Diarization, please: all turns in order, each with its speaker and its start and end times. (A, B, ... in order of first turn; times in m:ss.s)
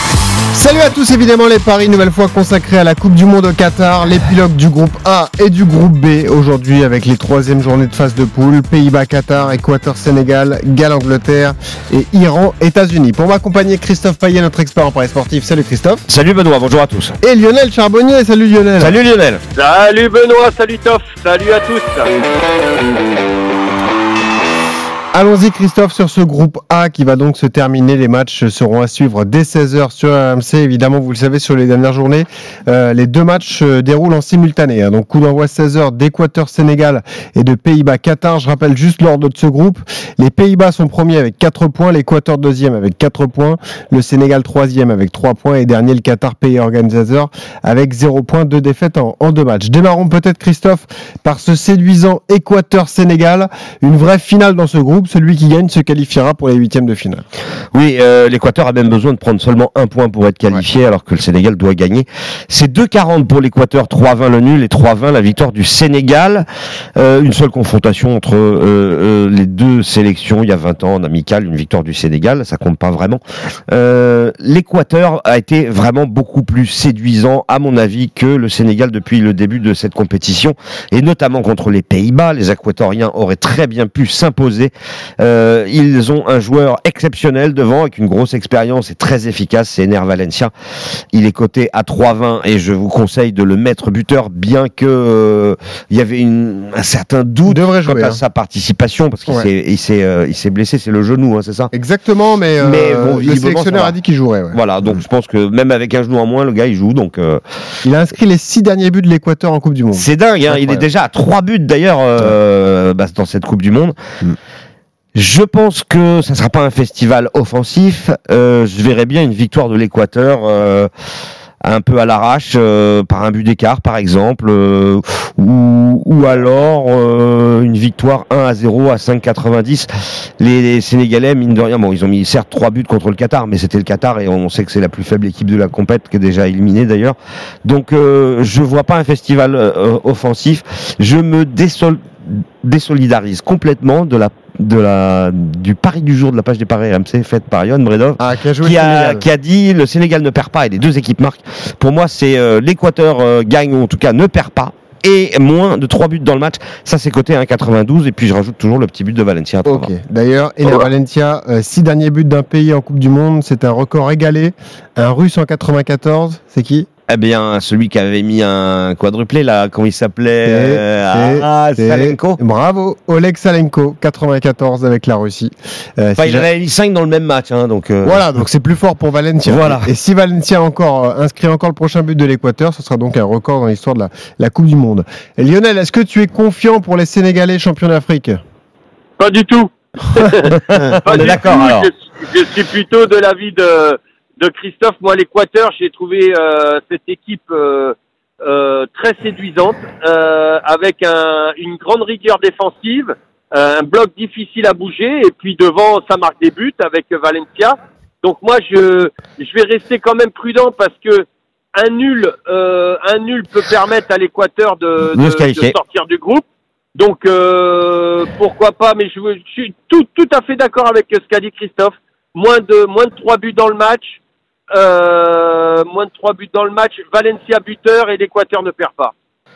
0:00.5-0:16.0 A
0:16.1-0:17.2 B
0:17.2-0:19.0 A
0:18.8-0:19.4 B
0:19.5-0:22.1 C
0:25.1-0:57.2 A
0:57.7-1:06.4 B
1:07.0-1:30.5 B
1:31.1-1:41.7 B
1:37.4-1:38.2 A
1:41.7-1:45.0 A
1:42.6-1:43.9 B
1:44.5-1:47.4 B
1:47.8-1:50.8 A
1:49.9-1:54.0 B
1:55.1-2:00.9 B
2:01.6-2:39.9 B
2:28.2-2:29.3 A
2:39.6-2:46.9 A
2:47.1-2:52.4 B
2:50.4-2:56.5 A
2:56.2-2:58.2 B
2:58.0-3:08.4 A
2:59.4-2:59.9 B
3:09.2-3:44.2 C
3:10.7-3:11.9 B
3:35.1-3:35.7 B
3:44.7-3:49.1 C